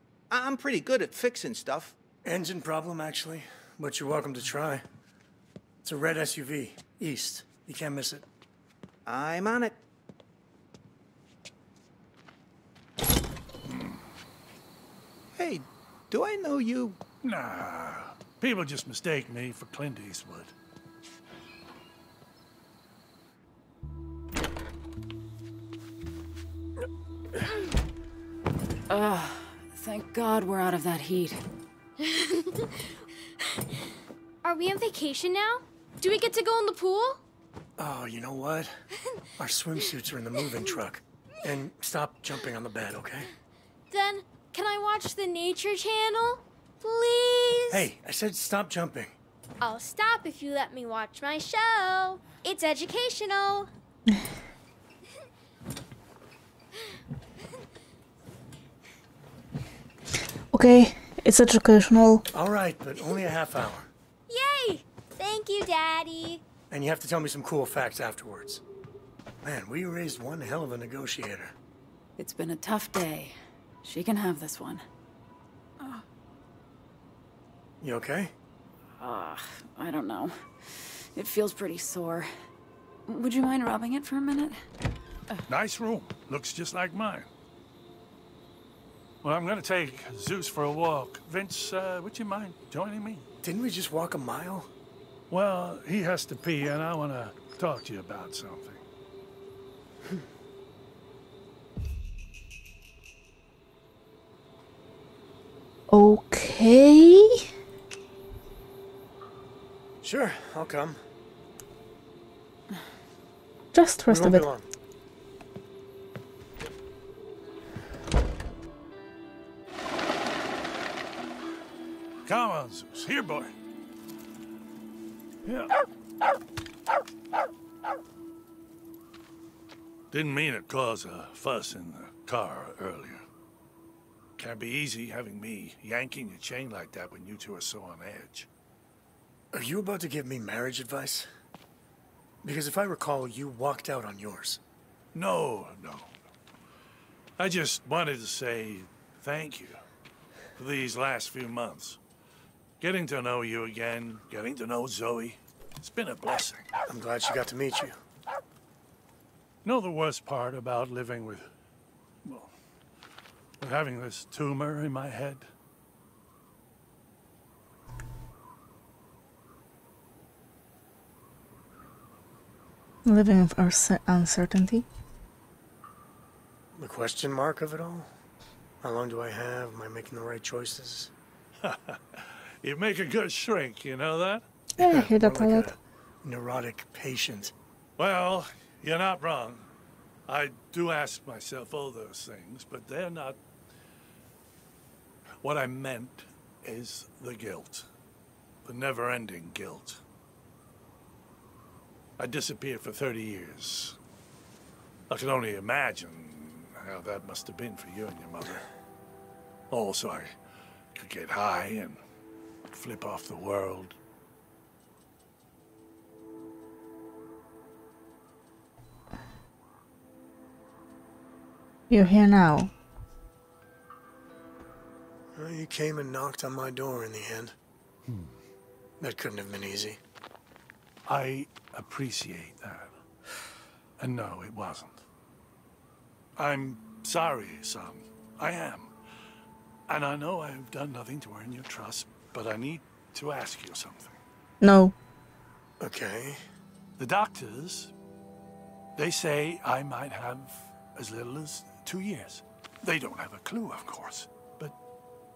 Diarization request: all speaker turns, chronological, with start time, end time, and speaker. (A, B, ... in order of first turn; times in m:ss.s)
0:00.3-0:02.0 A
0:02.2-0:04.8 B
0:05.8-0:08.2 B
0:09.1-0:09.8 A
0:13.7-0:14.0 C
0:15.4-0:17.0 A
0:17.2-0:20.5 C
0:28.9-0:31.4 D
0:34.4-0:37.2 E
0:37.8-0:38.7 B
0:39.4-0:43.3 B
0:43.9-0:47.9 E
0:47.7-0:49.1 B
0:49.6-0:53.7 E
1:00.5-1:02.2 F
1:02.3-1:03.9 B
1:04.3-1:06.4 E
1:06.7-1:08.6 B
1:09.4-1:11.6 B
1:12.2-1:14.9 D
1:17.8-1:18.3 B
1:19.0-1:22.3 D
1:23.1-1:24.6 D
1:25.5-1:27.3 C
1:29.2-1:33.3 C
1:33.4-1:34.7 B
1:35.3-1:38.8 C
1:45.9-1:47.4 F
1:50.0-1:51.0 B
1:53.7-1:54.5 F
1:54.1-1:54.7 B
2:02.3-2:03.5 C
2:05.5-2:05.7 C
2:10.1-2:13.2 C
2:14.4-2:18.5 C
2:19.5-2:21.3 B
2:22.4-2:24.6 B
2:25.1-2:26.1 C
2:27.4-2:29.8 C
2:30.6-2:32.0 C
2:32.8-2:36.7 C
2:36.9-2:38.0 B
2:39.6-2:41.5 C
2:42.2-2:42.5 C
2:43.6-2:45.5 C
2:53.0-2:54.9 F
2:56.8-2:58.1 B
2:58.8-3:01.1 B
3:01.6-3:04.5 C
3:04.8-3:05.7 F
3:04.8-3:07.5 B
3:08.0-3:09.7 C
3:10.3-3:13.4 C
3:15.4-3:17.9 C
3:18.6-3:20.0 C
3:22.2-3:24.0 C
3:25.1-3:28.6 C
3:29.7-3:30.3 C
3:30.9-3:32.0 C
3:32.7-3:34.0 C
3:41.9-3:42.7 F
3:45.4-3:47.6 B
3:48.1-3:48.3 C
3:49.0-3:50.0 B
3:51.1-3:52.9 C
3:54.0-3:55.0 C
3:56.4-3:58.9 C
3:59.9-4:04.2 C
4:04.6-4:05.0 F
4:05.8-4:06.4 B
4:07.0-4:07.9 C
4:09.0-4:14.8 C